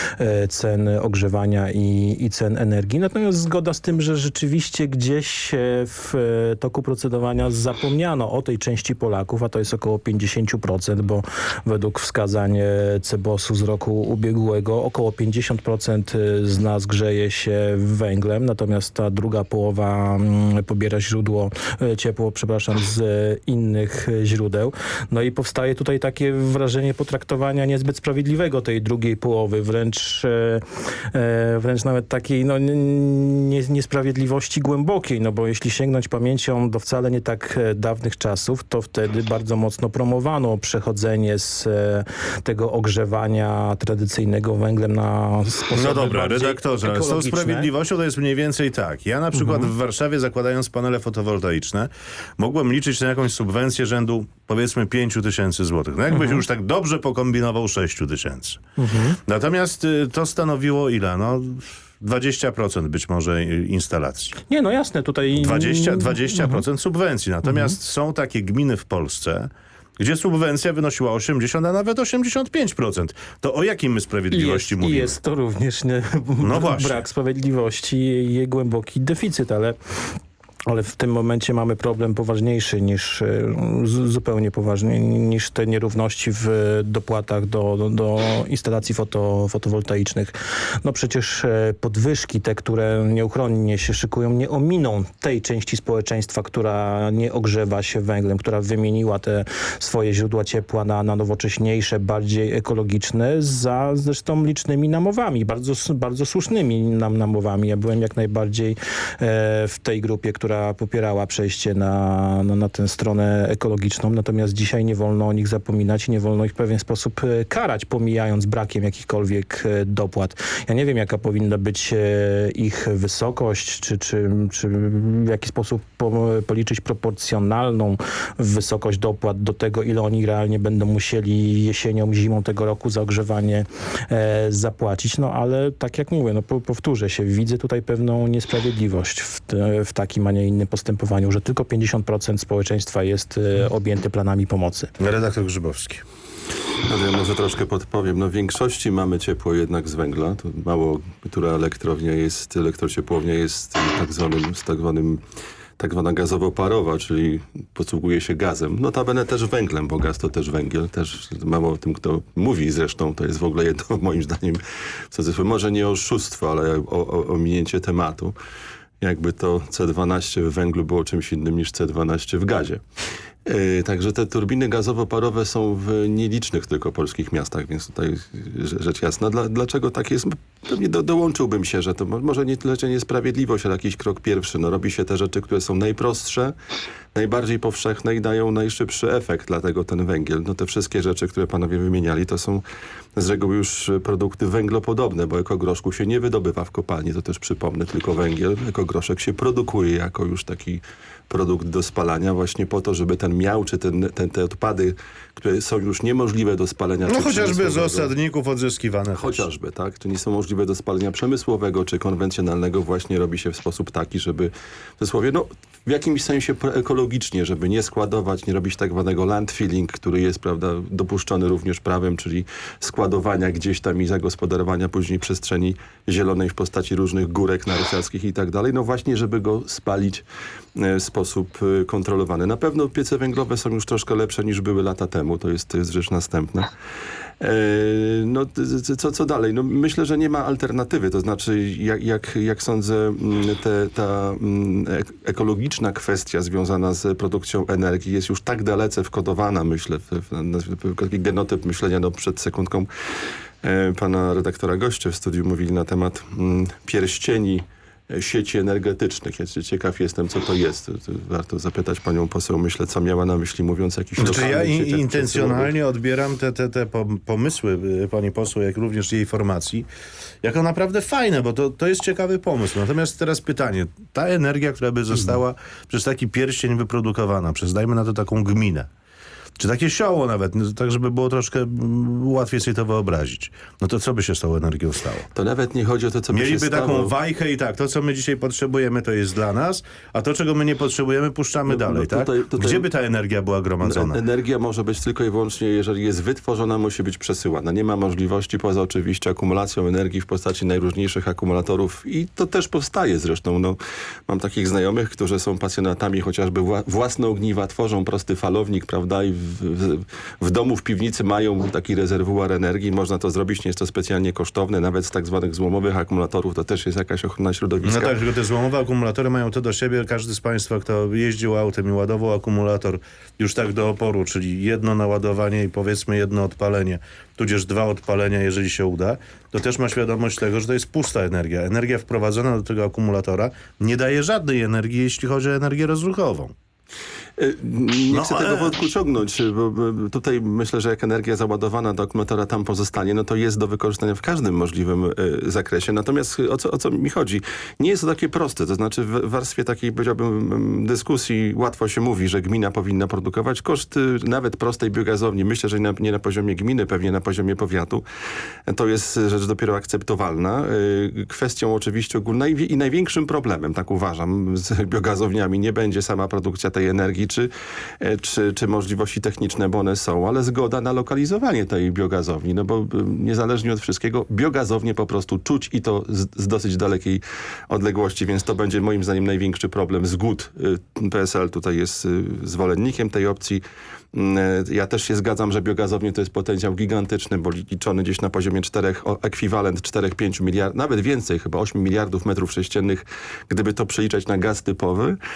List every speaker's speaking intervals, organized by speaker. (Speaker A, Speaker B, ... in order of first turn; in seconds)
Speaker A: 0.2-47.7, 49.4-49.7, 56.1-56.4, 58.8-59.2, 64.5-66.6, 67.5-67.8, 74.3-79.8, 80.7-144.9
Speaker B: 45.8-58.6, 59.2-64.4, 65.4-75.2, 76.4-77.0, 145.0-146.0, 207.1-209.5, 264.2-269.9, 270.4-278.9, 279.6-285.3, 286.3-294.2, 317.9-336.5, 338.1-338.8
Speaker C: 146.9-155.2, 155.8-164.6, 165.1-168.3, 169.0-172.8, 173.5-186.6, 187.1-192.6, 193.2-208.1, 209.2-236.7, 237.4-252.9, 253.6-265.7, 285.4-287.1, 291.7-292.9, 293.8-318.2, 337.4-358.0, 358.7-367.5, 368.0-383.6, 384.1-395.2